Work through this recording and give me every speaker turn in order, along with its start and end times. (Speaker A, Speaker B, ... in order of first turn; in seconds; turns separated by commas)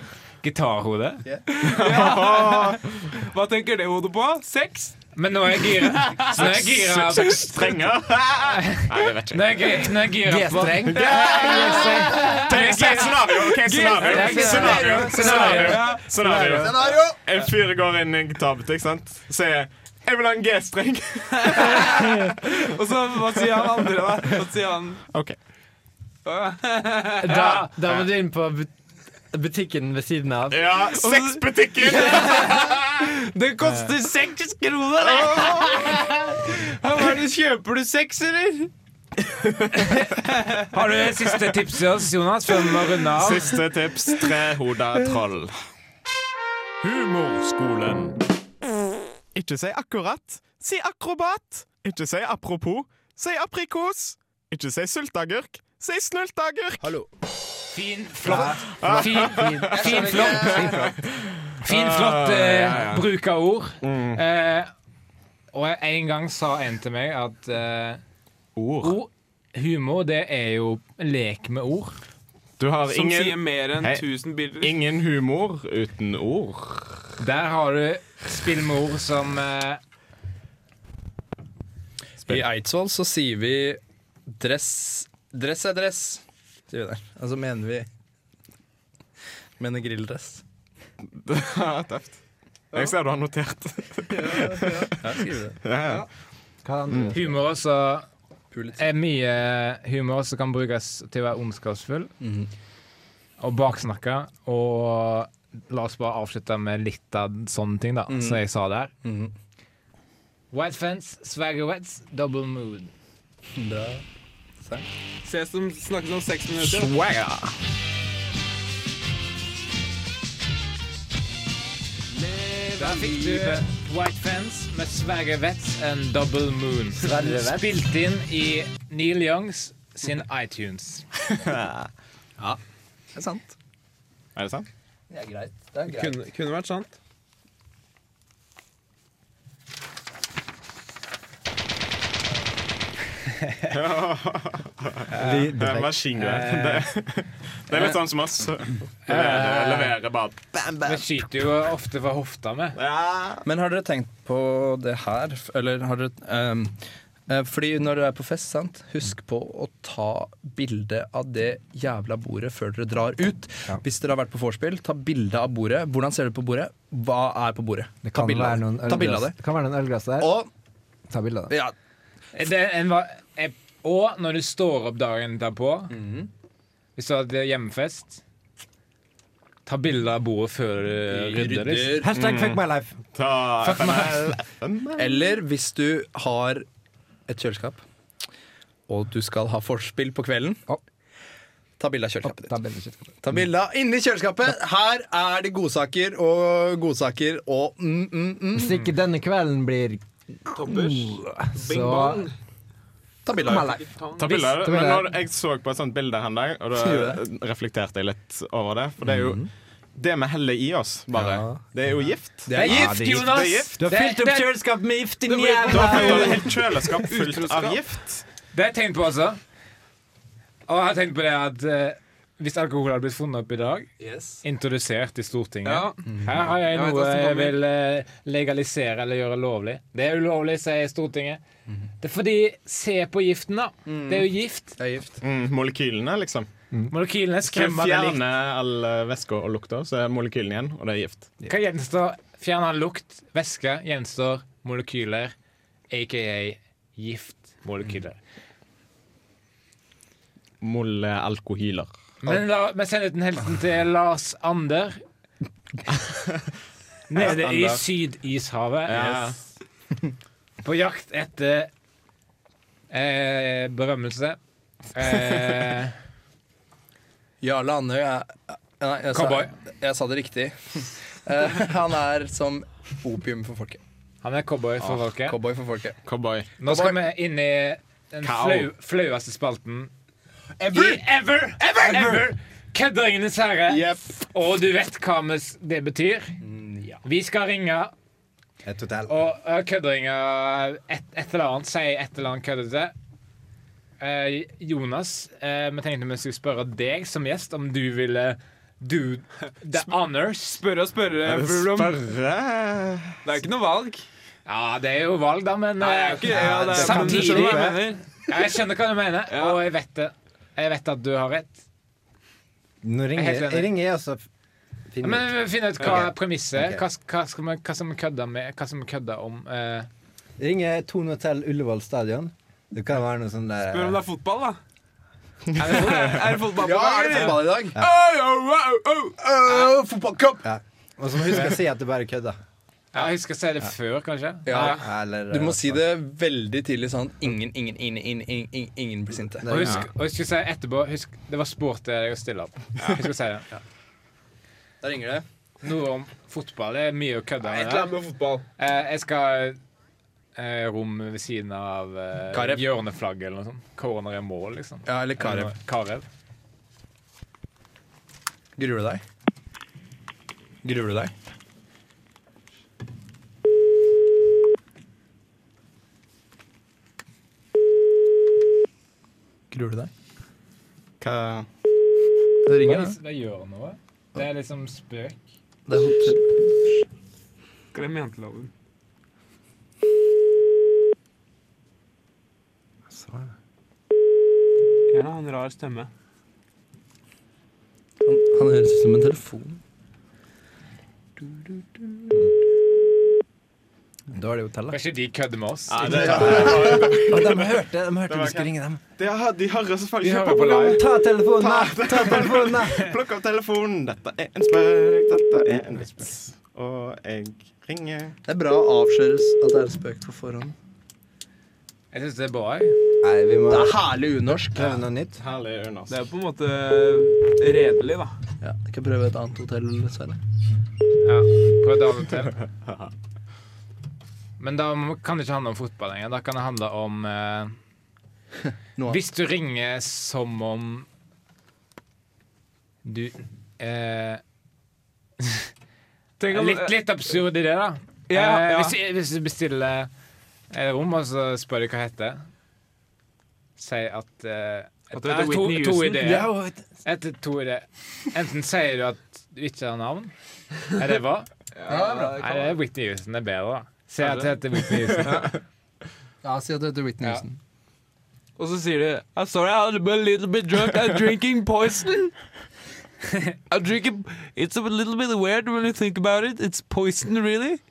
Speaker A: 0.4-1.2, Speaker B: 1.5-5.0, Speaker C: 1.6-3.1, Speaker A: 5.1-7.8, Speaker B: 5.8-6.4, Speaker C: 6.3-9.9, Speaker A: 8.5-13.3, Speaker D: 10.2-12.3, Speaker C: 10.8-22.7, Speaker B: 12.1-12.4, Speaker B: 13.4-16.1, Speaker A: 13.9-15.8, Speaker D: 14.4-15.5, Speaker D: 16.1-16.7, Speaker E: 16.5-17.2, Speaker B: 21.4-25.0, Speaker B: 26.2-27.6, Speaker D: 27.2-28.7, Speaker A: 27.2-27.7, Speaker D: 29.3-30.6, Speaker C: 30.5-32.8, Speaker B: 30.9-38.7, Speaker C: 35.1-35.8, Speaker C: 39.4-39.9, Speaker B: 40.2-40.7, Speaker A: 40.7-43.6, Speaker C: 43.1-45.5, Speaker C: 46.8-48.2, Speaker C: 49.3-56.9, Speaker E: 56.8-57.1, Speaker A: 57.7-60.7, Speaker D: 58.3-58.9, Speaker C: 58.7-63.1, Speaker E: 59.7-61.0, Speaker A: 61.6-64.7, Speaker C: 63.8-64.2, Speaker A: 65.5-68.0, Speaker C: 68.5-69.0, Speaker A: 68.8-72.0, Speaker C: 72.6-74.0, Speaker B: 72.9-74.7, Speaker C: 74.6-77.1, Speaker A: 77.2-79.8, Speaker E: 82.2-87.9, Speaker E: 89.6-90.4, Speaker C: 91.2-92.2, Speaker C: 92.7-95.0, Speaker B: 94.1-94.9, Speaker E: 95.0-95.6, Speaker C: 95.6-96.0, Speaker D: 96.6-97.3, Speaker A: 97.1-98.0, Speaker E: 98.5-98.8, Speaker A: 98.8-102.1, Speaker E: 102.2-102.5, Speaker A: 103.4-108.9, Speaker E: 108.1-108.4, Speaker E: 109.0-109.3, Speaker A: 110.5-112.9, Speaker E: 113.5-114.0, Speaker E: 114.6-114.9, Speaker B: 115.2-116.9, Speaker C: 116.6-117.5, Speaker B: 122.2-123.5, Speaker A: 122.8-131.1, Speaker D: 127.0-127.7, Speaker C: 131.3-131.9, Speaker E: 133.1-133.5, Speaker C: 134.3-134.7, Speaker E: 135.1-136.1, Speaker B: 135.9-136.9, Speaker A: 143.4-143.7, Speaker C: 143.7-151.2, Speaker A: 145.1-145.5, Speaker D: 145.2-146.1, Speaker A: 146.2-146.9, Speaker A: 149.1-149.9, Speaker A: 150.8-152.8, Speaker C: 152.8-153.4, Speaker E: 153.4-169.3, Speaker D: 168.0-170.3, Speaker E: 170.2-170.5, Speaker D: 171.1-171.5, Speaker E: 171.5-171.7, Speaker A: 172.3-175.9, Speaker E: 175.9-176.3, Speaker A: 176.9-178.2, Speaker A: 179.7-182.0, Speaker E: 181.1-182.1, Speaker D: 182.0-183.0, Speaker C: 182.1-182.6, Speaker C: 183.1-185.2, Speaker A: 183.6-184.3, Speaker E: 184.9-186.7, Speaker E: 187.3-187.8, Speaker E: 188.9-190.6, Speaker E: 191.8-192.5, Speaker D: 192.2-193.4, Speaker E: 193.2-198.8, Speaker D: 198.5-200.0, Speaker B: 200.5-202.3, Speaker D: 200.6-202.2, Speaker E: 203.2-203.8, Speaker B: 203.4-204.2, Speaker D: 203.4-203.8, Speaker C: 204.2-213.8, Speaker A: 204.3-204.5, Speaker D: 204.6-205.1, Speaker E: 206.8-207.2, Speaker E: 209.0-209.5, Speaker E: 211.1-211.7, Speaker E: 212.4-212.9, Speaker D: 212.6-216.6, Speaker A: 212.6-214.5, Speaker B: 215.2-217.8, Speaker C: 215.6-218.2, Speaker A: 218.5-219.4, Speaker A: 220.7-223.9, Speaker E: 224.0-224.4, Speaker A: 224.4-231.4, Speaker B: 225.6-227.6, Speaker E: 226.1-226.4, Speaker A: 232.0-234.8, Speaker E: 233.9-235.2, Speaker C: 235.2-236.5, Speaker A: 236.9-238.2, Speaker C: 237.4-241.3, Speaker A: 241.4-245.3, Speaker A: 245.9-248.2, Speaker C: 250.6-251.9, Speaker A: 252.2-255.0, Speaker A: 257.1-259.4, Speaker E: 257.2-257.8, Speaker C: 258.9-259.4, Speaker A: 260.6-261.7, Speaker A: 262.9-264.4, Speaker A: 264.9-265.9, Speaker E: 267.4-273.8, Speaker A: 269.1-269.5, Speaker A: 274.2-275.4, Speaker E: 275.2-276.0, Speaker C: 276.0-276.6, Speaker A: 276.6-279.9, Speaker E: 276.6-277.0, Speaker C: 278.2-278.7, Speaker E: 280.6-281.0, Speaker A: 280.7-286.3, Speaker E: 281.6-282.2, Speaker E: 283.7-284.0, Speaker E: 286.4-287.0, Speaker A: 287.0-287.9, Speaker D: 288.6-289.1, Speaker A: 289.1-292.9, Speaker A: 294.0-300.6, Speaker B: 300.6-302.0, Speaker C: 301.2-303.2, Speaker B: 303.2-304.0, Speaker A: 304.4-311.6, Speaker B: 305.8-308.0, Speaker E: 306.3-306.9, Speaker D: 306.3-307.9, Speaker B: 309.3-309.6, Speaker D: 312.8-314.2, Speaker A: 313.1-313.7, Speaker D: 314.9-316.8, Speaker A: 315.0-319.9, Speaker D: 320.4-324.0, Speaker B: 323.7-324.6, Speaker A: 325.6-326.2, Speaker C: 325.6-326.0, Speaker B: 325.6-329.2, Speaker E: 326.5-327.8, Speaker E: 329.2-330.4, Speaker D: 330.4-332.4, Speaker A: 332.9-334.8, Speaker E: 334.4-339.5, Speaker D: 334.5-335.8, Speaker D: 339.4-339.9, Speaker A: 339.5-343.5, Speaker E: 344.8-345.2, Speaker A: 345.6-347.9, Speaker B: 347.4-348.4, Speaker A: 348.6-349.6, Speaker A: 350.4-356.0, Speaker E: 352.3-352.6, Speaker E: 354.9-355.5, Speaker E: 358.6-359.0, Speaker E: 360.6-361.1, Speaker E: 369.5-369.9, Speaker C: 371.0-371.5, Speaker E: 372.4-372.9, Speaker A: 372.6-375.2, Speaker E: 375.7-376.5, Speaker B: 377.7-378.5, Speaker D: 382.9-383.2, Speaker B: 384.9-385.9, Speaker E: 388.0-389.6, Speaker E: 391.2-392.2, Speaker E: 394.1-394.7, Speaker A: 394.7-395.8, Speaker C: 395.7-397.5, Speaker E: 395.8-396.9, Speaker D: 396.2-398.8, Speaker C: 398.1-408.2, Speaker A: 400.0-400.8, Speaker D: 400.6-402.8, Speaker E: 408.2-410.5, Speaker A: 411.9-412.7, Speaker D: 413.0-413.8, Speaker E: 413.5-414.8, Speaker D: 414.5-415.2, Speaker C: 415.2-416.0, Speaker B: 415.9-418.1, Speaker E: 418.4-420.2, Speaker A: 421.0-422.4, Speaker C: 422.6-422.9, Speaker A: 424.4-427.6, Speaker A: 428.9-430.9, Speaker A: 432.8-434.2, Speaker B: 436.2-436.8, Speaker A: 436.3-439.9, Speaker B: 438.1-438.7, Speaker A: 440.5-442.2, Speaker A: 443.6-446.3, Speaker B: 444.9-446.2, Speaker D: 446.0-446.6, Speaker A: 446.8-450.1, Speaker A: 450.7-451.3, Speaker B: 451.5-452.6, Speaker E: 451.7-452.2, Speaker A: 452.2-455.3, Speaker B: 454.0-454.3, Speaker E: 455.0-455.3, Speaker E: 456.2-457.4, Speaker B: 458.4-462.1, Speaker B: 463.5-467.6